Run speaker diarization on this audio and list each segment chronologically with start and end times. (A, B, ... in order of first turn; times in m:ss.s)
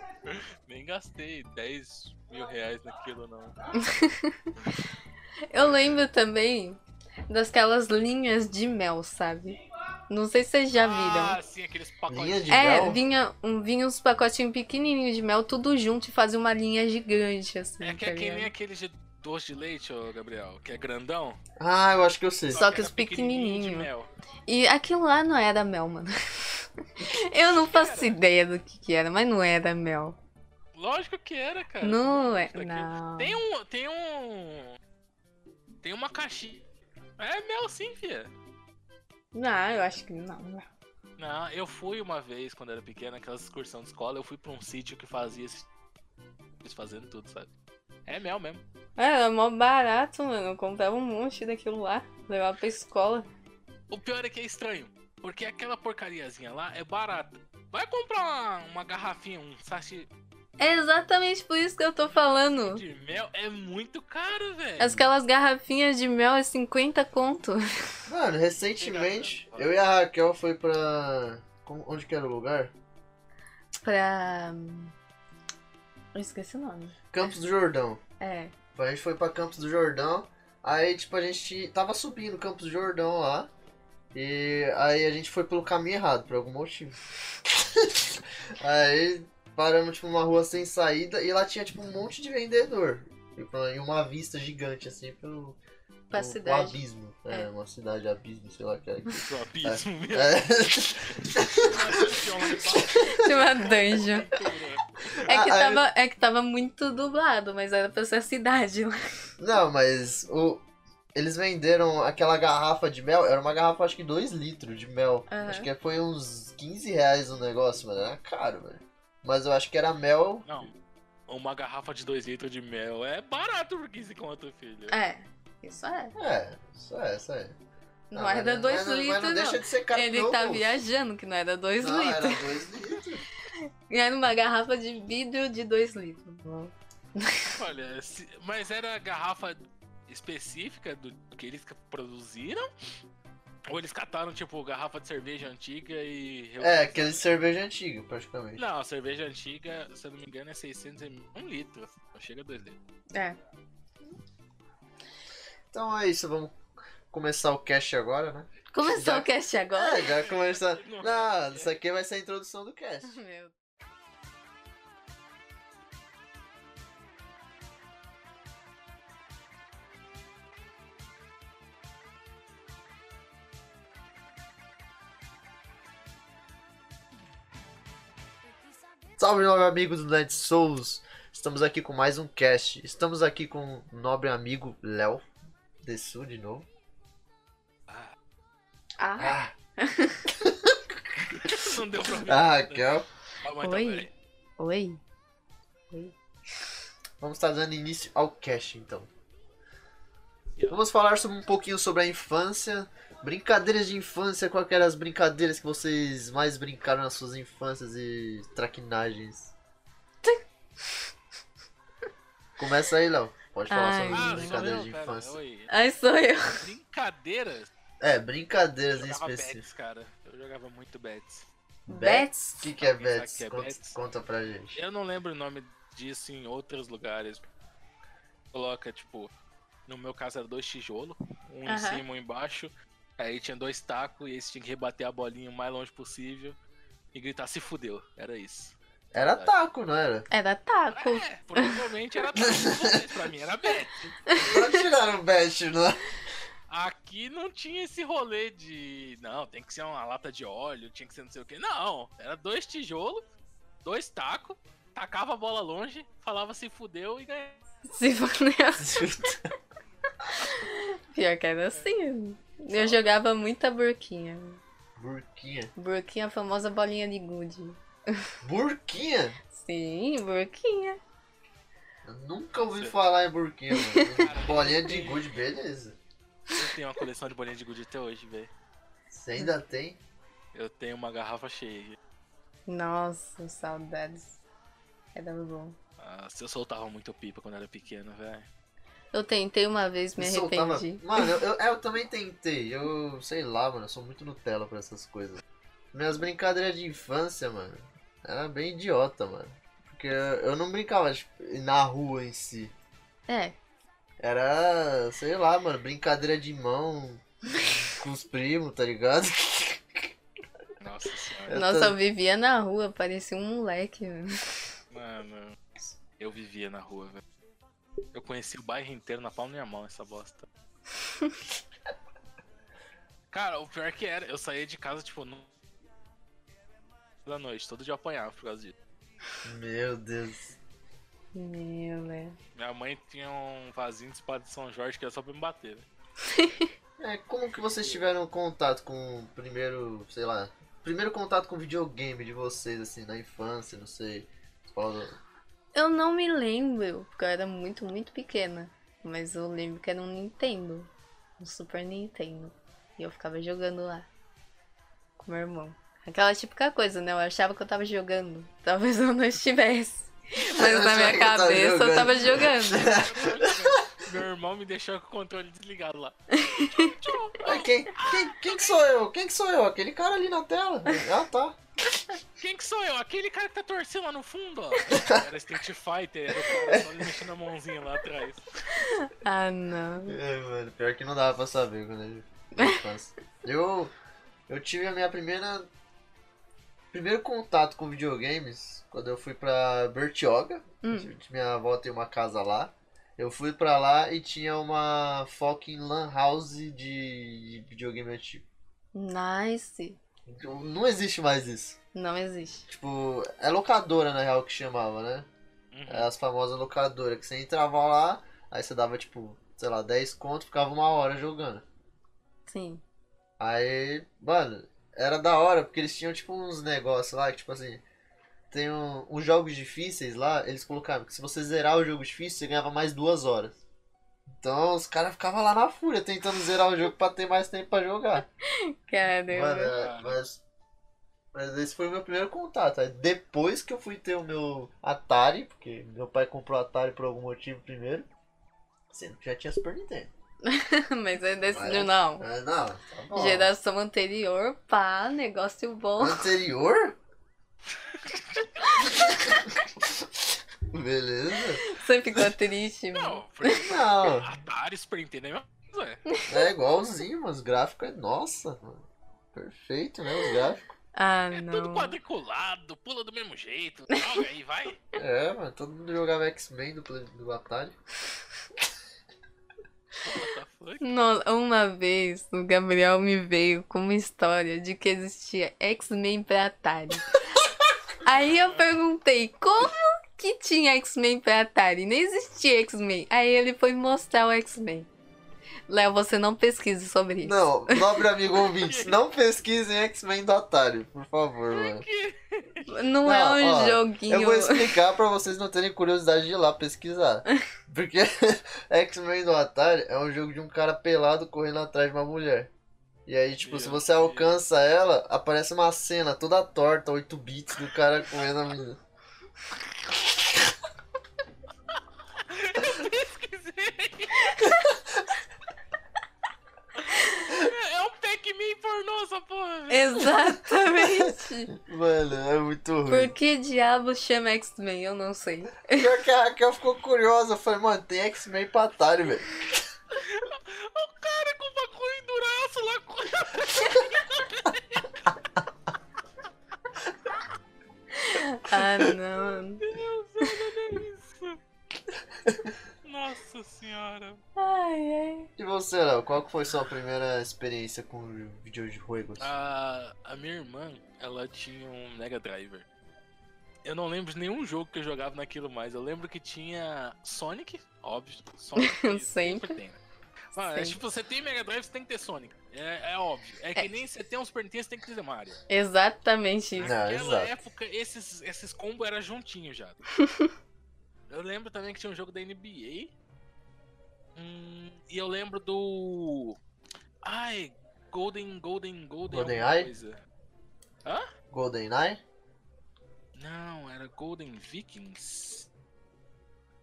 0:00.3-0:03.6 A
0:03.8-0:04.5 B
0:05.5-0:11.4 B
0:10.8-0:12.6 A
0:12.1-0:13.0 C
0:12.5-0:18.5 B
0:17.8-0:21.4 A
0:21.6-0:22.7 C
0:22.5-0:24.1 A
0:22.6-0:23.9 B
0:24.5-0:30.2 B
0:27.5-0:28.2 A
0:30.8-0:34.8 A
0:31.8-0:33.4 B
0:35.8-0:36.6 A
0:37.2-0:38.3 A
0:39.3-0:40.7 B
0:41.2-0:45.7 A
0:46.6-0:47.5 A
0:48.1-0:48.6 A
0:49.0-0:53.3 B
0:53.9-1:00.1 A
1:00.6-1:02.8 B
1:02.6-1:04.9 A
1:04.8-1:07.6 B
1:08.1-1:12.7 C
1:08.8-1:09.8 A
1:13.8-1:14.9 B
1:16.1-1:17.0 B
1:17.1-1:18.0 C
1:18.2-1:18.5 B
1:18.8-1:23.5 C
1:24.1-1:35.6 C
1:36.1-1:37.5 B
1:36.1-1:43.3 C
1:39.1-1:40.4 A
1:41.1-1:45.3 A
1:43.2-1:44.3 B
1:45.3-1:45.8 C
1:45.3-1:49.0 B
1:49.4-2:00.5 C
1:55.3-1:55.7 B
2:00.4-2:00.8 A
2:01.3-2:05.0 A
2:04.9-2:06.2 B
2:06.2-2:07.6 C
2:08.1-2:12.5 B
2:08.2-2:10.8 C
2:11.8-2:13.2 C
2:13.9-2:17.6 B
2:17.6-2:22.7 A
2:23.7-2:27.3 A
2:26.6-2:28.6 C
2:28.6-2:32.8 A
2:35.7-2:36.5 C
2:37.1-2:43.2 C
2:38.7-2:40.1 B
2:40.1-2:41.7 A
2:43.0-2:43.5 B
2:59.2-3:05.3 C
3:05.8-3:06.7 C
3:07.9-3:08.1 A
3:09.0-3:10.3 B
3:09.2-3:09.5 C
3:10.3-3:13.1 C
3:11.4-3:12.9 A
3:13.4-3:14.1 A
3:13.6-3:14.1 B
3:14.6-3:15.0 B
3:17.2-3:19.1 C
3:20.7-3:29.5 C
3:32.6-3:35.4 C
3:33.7-3:34.6 B
3:34.1-3:35.7 A
3:35.7-3:36.7 B
3:36.3-3:37.7 A
3:38.0-3:39.6 C
3:38.9-3:41.5 A
3:41.9-3:44.8 C
3:41.9-3:42.3 B
3:42.8-3:44.0 A
3:44.7-3:47.4 A
3:48.5-3:49.3 A
3:49.9-3:56.6 A
3:51.7-3:52.0 B
3:57.1-3:59.5 A
3:59.1-4:00.3 C
4:00.3-4:01.8 B
4:00.9-4:04.1 A
4:02.4-4:03.0 C
4:04.3-4:04.8 B
4:04.4-4:06.0 C
4:06.7-4:13.2 A
4:13.8-4:17.6 A
4:17.8-4:19.2 B
4:18.8-4:19.5 C
4:20.3-4:24.6 B
4:22.7-4:23.2 A
4:25.0-4:25.7 C
4:25.8-4:28.3 B
4:28.4-4:29.4 C
4:29.5-4:31.0 B
4:32.0-4:36.0 C
4:32.7-4:33.0 A
4:33.7-4:34.1 B
4:34.2-4:35.3 A
4:36.5-4:38.5 A
4:39.1-4:40.0 C
4:40.5-4:42.0 A
4:42.7-4:44.4 B
4:45.2-4:45.8 B
4:46.0-4:48.5 A
4:49.1-4:51.3 B
4:50.2-4:55.4 C
4:55.9-5:02.7 C
5:03.3-5:03.6 B
5:04.2-5:10.1 C
5:10.8-5:11.5 A
5:11.5-5:12.0 C
5:11.5-5:14.4 B
5:14.9-5:15.6 A
5:16.2-5:17.2 A
5:18.1-5:20.5 A
5:23.3-5:25.5 A
5:27.2-5:28.8 A
5:29.4-5:30.6 C
5:31.3-5:32.4 B
5:32.6-5:35.9 A
5:36.3-5:36.7 B
5:37.0-5:45.2 C
5:45.7-5:54.1 B
5:55.2-6:02.9 B
6:00.5-6:04.0 C
6:02.7-6:08.8 A
6:06.3-6:06.9 B
6:07.4-6:11.6 C
6:12.4-6:18.5 A
6:14.9-6:15.2 C
6:16.5-6:17.1 C
6:18.8-6:20.2 B
6:20.1-6:23.9 C
6:22.6-6:22.8 B
6:24.5-6:25.7 C
6:26.9-6:38.4 C
6:30.8-6:31.1 B
6:39.0-6:40.0 B
6:40.3-6:41.8 C
6:41.9-6:42.7 B
6:42.7-6:45.3 C
6:45.7-6:46.1 A
6:45.9-6:51.6 C
6:52.5-6:52.8 B
6:53.4-6:57.8 C
6:58.5-7:03.6 C
7:04.4-7:08.3 C
7:08.6-7:09.7 B
7:09.3-7:10.4 C
7:09.7-7:10.2 A
7:11.3-7:18.1 C
7:18.9-7:20.1 C
7:20.4-7:22.3 B
7:21.5-7:23.5 C
7:23.1-7:26.3 B
7:26.0-7:27.0 C
7:27.9-7:28.8 A
7:28.8-7:29.1 B
7:29.0-7:29.3 C
7:30.7-7:31.6 C
7:31.6-7:33.6 B
7:32.9-7:36.0 A
7:33.6-7:34.3 C
7:36.3-7:40.6 C
7:41.0-7:42.0 B
7:41.3-7:44.8 A
7:45.0-7:47.8 C
7:50.0-7:50.8 A
7:50.8-7:57.1 B
7:58.0-8:04.9 B
7:58.1-7:58.6 A
8:05.7-8:07.9 B
8:07.2-8:11.9 C
8:08.4-8:09.0 A
8:11.5-8:12.7 A
8:12.7-8:14.8 B
8:13.0-8:22.5 C
8:23.1-8:28.8 C
8:23.4-8:24.4 A
8:32.2-8:34.5 A
8:34.5-8:35.0 C
8:36.8-8:40.1 A
8:39.7-8:41.5 B
8:40.7-8:43.1 C
8:42.9-8:45.9 B
8:45.7-8:49.6 C
8:49.9-8:54.9 A
8:58.0-8:59.6 B
8:59.6-9:01.4 A
9:02.8-9:04.2 A
9:04.4-9:05.3 B
9:05.4-9:09.3 C
9:09.2-9:12.7 A
9:13.6-9:19.8 A
9:18.6-9:19.6 B
9:20.4-9:25.4 A
9:20.4-9:20.8 B
9:25.5-9:26.8 B
9:26.6-9:29.8 A
9:26.6-9:27.4 C
9:30.0-9:30.3 B
9:31.1-9:32.9 A
9:34.2-9:36.4 A
9:37.0-9:40.0 A
9:39.1-9:39.7 C
9:41.3-9:42.0 C
9:43.2-9:45.5 A